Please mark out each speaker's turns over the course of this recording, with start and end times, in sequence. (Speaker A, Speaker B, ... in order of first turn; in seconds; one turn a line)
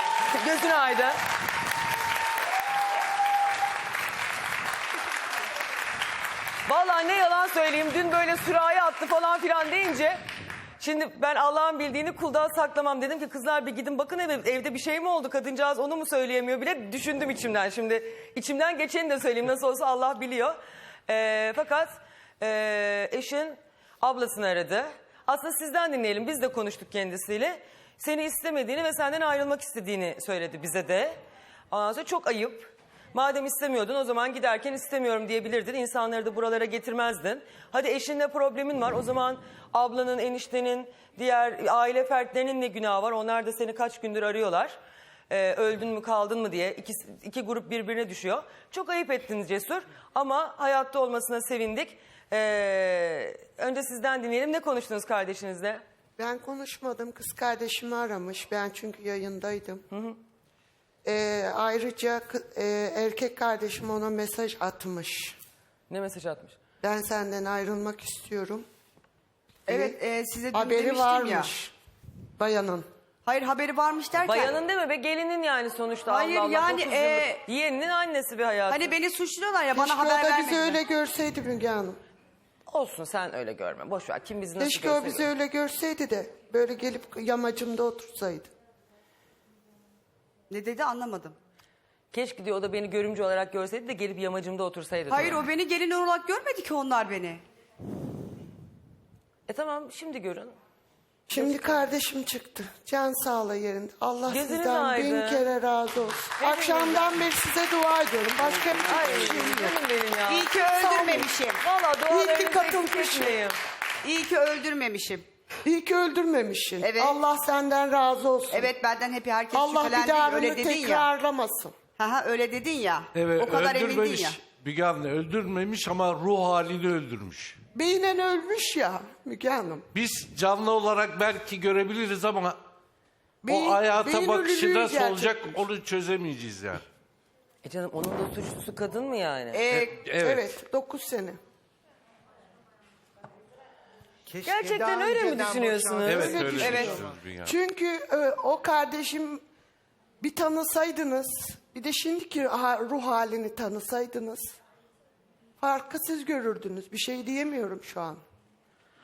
Speaker A: 0.3-1.2
Speaker A: 6.7-10.2
Speaker A: 10.8-31.2
Speaker A: 31.7-44.8
Speaker A: 45.3-55.8
Speaker B: 56.2-59.8
Speaker A: 59.9-60.2
Speaker B: 61.0-65.4
Speaker A: 65.9-66.6
Speaker B: 66.8-68.7
Speaker B: 69.7-70.0
Speaker C: 69.7-71.5
Speaker B: 70.5-71.7
Speaker B: 72.4-72.8
Speaker C: 73.2-74.6
Speaker A: 74.2-78.9
Speaker C: 76.1-77.4
Speaker C: 78.7-80.8
Speaker B: 79.7-82.0
Speaker A: 82.7-85.3
Speaker B: 84.6-88.5
Speaker C: 90.5-91.4
Speaker A: 92.1-95.4
Speaker C: 95.1-97.4
Speaker A: 99.5-100.5
Speaker B: 101.3-109.8
Speaker A: 101.3-101.9
Speaker A: 104.3-105.5
Speaker A: 106.4-107.2
Speaker C: 108.6-109.6
Speaker A: 108.9-110.5
Speaker C: 110.3-111.6
Speaker B: 110.8-111.3
Speaker A: 111.6-113.6
Speaker B: 112.1-113.4
Speaker C: 114.0-115.2
Speaker B: 115.7-118.7
Speaker C: 116.8-117.1
Speaker C: 118.5-121.0
Speaker B: 119.5-121.8
Speaker C: 122.0-124.4
Speaker D: 123.1-127.6
Speaker B: 127.7-129.9
Speaker D: 129.9-132.6
Speaker B: 133.4-135.6
Speaker D: 133.5-136.8
Speaker A: 137.6-139.6
Speaker C: 139.6-139.9
Speaker D: 139.7-140.5
Speaker B: 140.1-141.4
Speaker E: 144.3-146.8
Speaker A: 144.4-146.8
Speaker B: 144.6-149.4
Speaker D: 146.1-147.6
Speaker B: 150.2-154.6
Speaker B: 155.6-158.2